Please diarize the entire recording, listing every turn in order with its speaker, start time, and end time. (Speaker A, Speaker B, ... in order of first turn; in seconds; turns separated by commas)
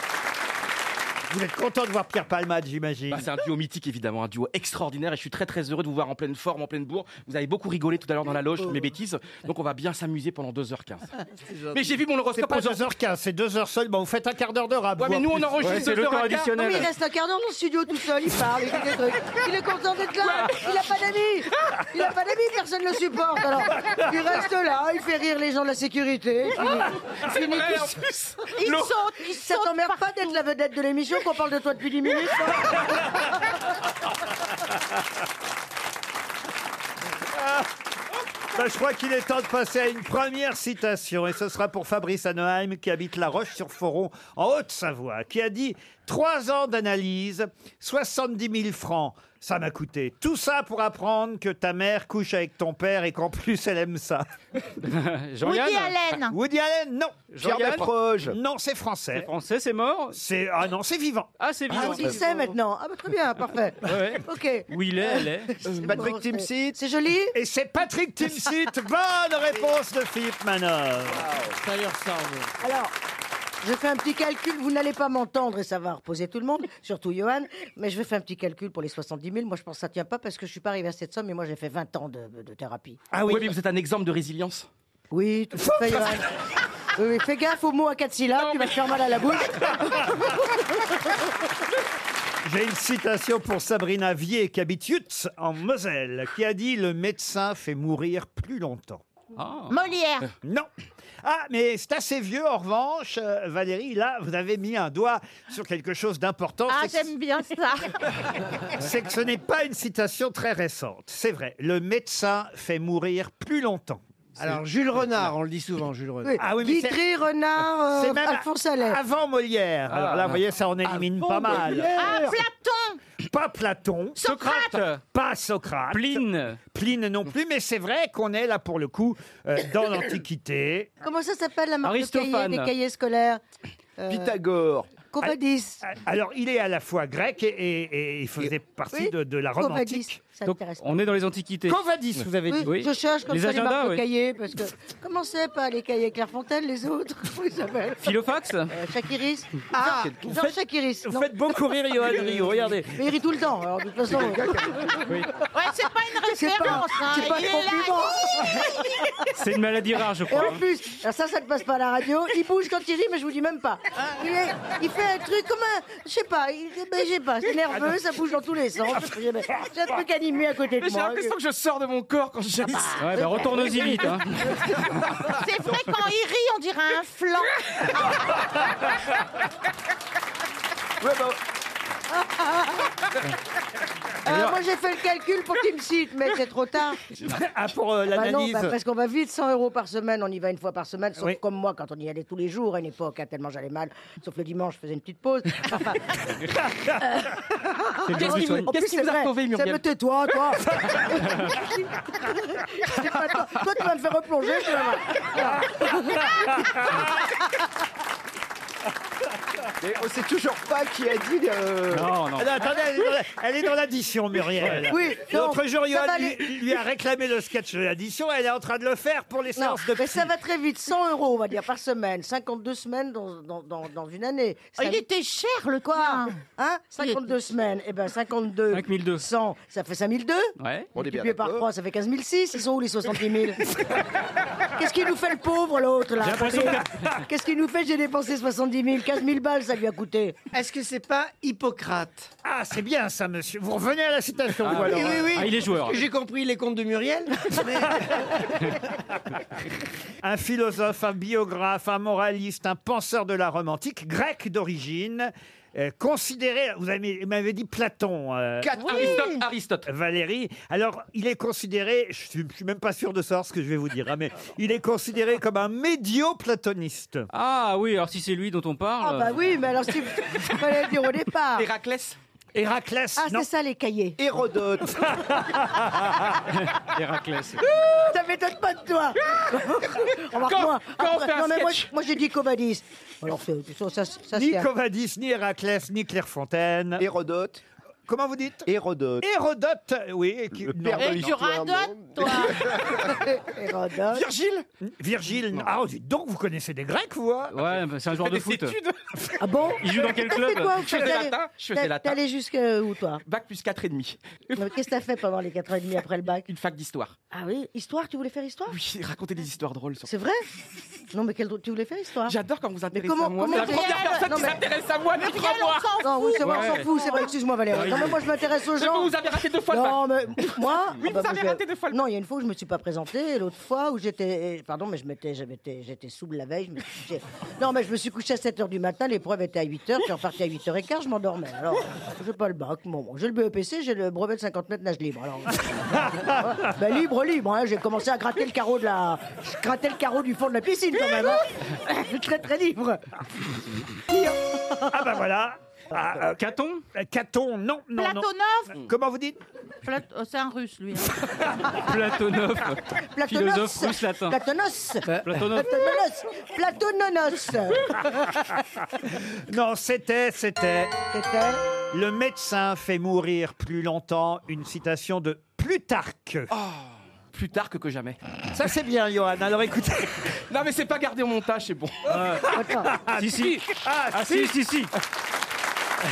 Speaker A: 1.3-3.3, Speaker B: 3.1-11.1, Speaker C: 11.4-11.7, Speaker B: 11.7-12.8, Speaker A: 12.3-15.6, Speaker B: 15.0-16.8, Speaker D: 15.6-16.9, Speaker E: 16.6-27.9, Speaker B: 20.2-20.8, Speaker B: 27.3-28.9, Speaker F: 28.6-30.1, Speaker E: 29.2-33.1, Speaker A: 37.4-37.6, Speaker A: 38.5-54.2, Speaker D: 54.8-56.0, Speaker F: 55.4-56.4, Speaker A: 56.3-57.3, Speaker D: 57.3-57.9, Speaker G: 57.4-58.4, Speaker A: 58.3-59.3, Speaker D: 59.1-60.2, Speaker A: 60.1-61.3, Speaker D: 61.4-62.5, Speaker E: 61.7-67.3, Speaker D: 63.8-65.6, Speaker G: 65.8-66.8, Speaker A: 67.3-71.3, Speaker C: 71.5-72.5, Speaker E: 72.6-72.9, Speaker E: 73.6-83.0, Speaker A: 83.1-83.5, Speaker B: 83.2-84.7, Speaker E: 85.1-86.3, Speaker E: 86.9-90.3, Speaker B: 88.4-88.9, Speaker A: 92.4-99.0, Speaker D: 99.4-99.8, Speaker F: 99.7-100.3, Speaker A: 100.4-100.7, Speaker A: 101.2-107.1, Speaker F: 106.7-108.0, Speaker A: 108.7-114.5, Speaker C: 114.4-116.4, Speaker E: 116.2-119.0, Speaker A: 116.4-117.0, Speaker A: 117.9-121.9, Speaker D: 119.9-120.3, Speaker C: 120.8-122.4, Speaker F: 121.9-123.0, Speaker A: 123.2-124.2, Speaker F: 124.2-124.9, Speaker D: 124.2-125.0, Speaker A: 125.1-130.9, Speaker D: 125.9-126.6, Speaker E: 131.0-133.4, Speaker D: 131.8-132.7, Speaker E: 134.0-134.4, Speaker G: 134.1-135.0, Speaker E: 135.0-135.8, Speaker A: 135.2-140.2, Speaker E: 138.9-141.1, Speaker D: 140.4-141.8, Speaker A: 141.7-142.7, Speaker E: 142.5-148.2, Speaker D: 142.6-144.0, Speaker D: 148.0-148.8, Speaker E: 148.7-151.3, Speaker C: 149.8-150.0, Speaker A: 151.1-153.1, Speaker E: 152.9-155.1, Speaker F: 155.5-158.6, Speaker E: 156.3-159.3, Speaker D: 159.3-160.6, Speaker E: 160.3-171.3, Speaker B: 170.8-173.1, Speaker D: 173.0-174.5, Speaker E: 173.1-174.1, Speaker F: 175.2-177.6, Speaker G: 181.0-181.4, Speaker E: 182.2-182.8, Speaker E: 184.2-187.0, Speaker A: 187.2-188.8, Speaker E: 188.1-196.0, Speaker E: 197.0-206.2, Speaker D: 198.1-198.7, Speaker B: 198.1-199.8, Speaker G: 209.8-212.2, Speaker D: 211.9-212.5, Speaker A: 212.4-220.3, Speaker E: 214.7-216.5, Speaker E: 219.6-225.0, Speaker F: 224.8-226.4, Speaker E: 225.8-233.6, Speaker F: 227.0-227.2, Speaker D: 228.7-229.2, Speaker D: 230.6-230.9, Speaker G: 230.9-231.7, Speaker E: 234.8-240.4, Speaker D: 236.2-236.9, Speaker C: 240.5-242.3, Speaker A: 242.4-245.5, Speaker D: 244.6-246.0, Speaker C: 244.7-248.4, Speaker A: 250.2-259.2, Speaker B: 258.7-259.9, Speaker E: 258.9-259.4, Speaker A: 259.9-267.3, Speaker D: 267.3-269.4, Speaker E: 269.0-271.7, Speaker B: 271.6-272.2, Speaker A: 272.5-273.5, Speaker E: 273.2-274.2, Speaker G: 274.2-275.1, Speaker A: 274.9-276.3, Speaker D: 276.5-277.6, Speaker E: 277.8-284.7, Speaker B: 280.3-281.9, Speaker A: 284.3-287.1, Speaker G: 287.0-287.6, Speaker A: 288.1-288.7, Speaker G: 288.7-289.2, Speaker A: 289.2-291.3, Speaker G: 290.6-292.8, Speaker F: 290.9-292.8, Speaker E: 293.0-294.2, Speaker B: 294.1-294.7, Speaker A: 294.8-297.6, Speaker D: 297.5-298.8, Speaker B: 298.2-299.0, Speaker E: 299.4-303.2, Speaker D: 299.8-300.9, Speaker B: 300.8-302.2, Speaker B: 303.2-304.7, Speaker E: 304.6-306.5, Speaker B: 306.5-307.2, Speaker E: 307.3-308.8, Speaker B: 308.7-310.1, Speaker E: 310.1-310.4, Speaker E: 311.1-312.4, Speaker B: 312.3-316.0, Speaker E: 312.9-314.6, Speaker F: 313.5-314.5, Speaker F: 315.2-317.2, Speaker E: 316.0-319.1, Speaker D: 316.4-316.9, Speaker B: 317.7-318.1, Speaker D: 317.8-318.1, Speaker B: 318.8-322.0, Speaker E: 319.7-343.2, Speaker A: 335.9-336.6, Speaker E: 344.1-344.7, Speaker A: 344.9-346.4, Speaker D: 346.2-346.8, Speaker A: 346.9-349.4, Speaker F: 347.9-348.8, Speaker F: 349.8-351.2, Speaker D: 351.7-354.4, Speaker E: 353.1-358.5, Speaker D: 355.1-355.8, Speaker A: 359.1-360.9, Speaker E: 361.1-361.6, Speaker A: 361.9-366.5, Speaker B: 366.5-368.2, Speaker A: 368.5-370.3, Speaker B: 370.5-372.0, Speaker D: 372.1-372.5, Speaker A: 372.1-374.6, Speaker E: 372.5-372.9, Speaker D: 373.1-374.9